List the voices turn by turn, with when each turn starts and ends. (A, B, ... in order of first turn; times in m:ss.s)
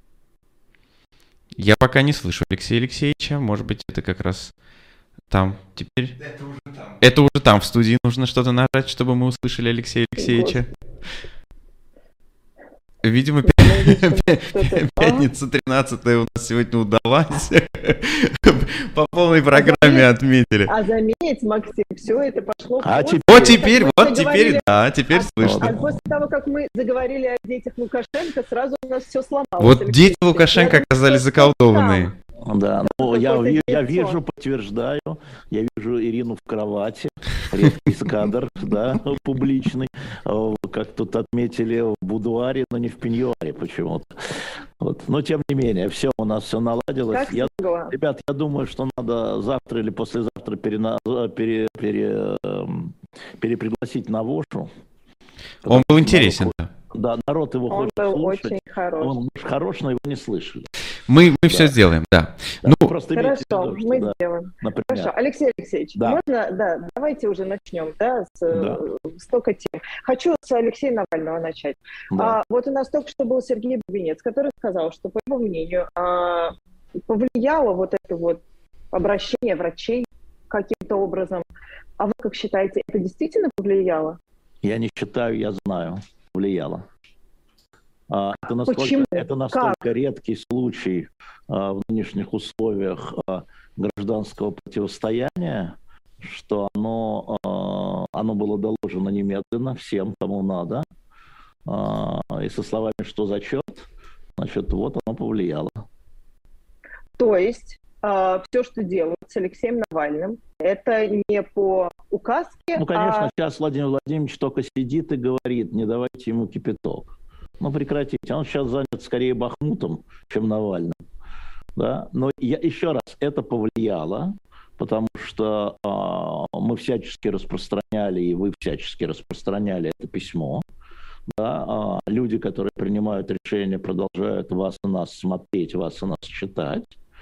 0:01.6-0:04.5 A
0:05.3-0:06.2 A
0:07.0-0:10.7 A
0:13.0-0:20.7 A
0:13.4-0:15.3 B
0:19.5-0:20.1 B
0:20.7-0:32.1 B
0:22.8-0:23.6 C
0:23.2-0:25.9 A
0:25.4-0:25.9 C
0:29.6-0:32.1 A
0:32.4-0:54.7 C
0:32.8-0:34.2 B
0:47.1-0:47.9 B
0:55.6-1:00.7 C
0:55.6-0:56.7 A
0:57.7-0:59.2 B
1:01.0-1:02.9 A
1:01.5-1:01.7 C
1:02.6-1:05.1 C
1:03.1-1:16.6 B
1:08.5-1:08.8 C
1:12.1-1:12.4 C
1:17.1-1:21.4 B
1:22.0-1:24.2 B
1:24.6-1:26.8 C
1:28.1-1:40.8 C
1:28.6-1:29.8 B
1:41.6-1:45.8 C
1:47.2-1:53.3 B
1:52.8-2:01.0 C
2:01.8-2:10.6 C
2:11.3-2:16.9 C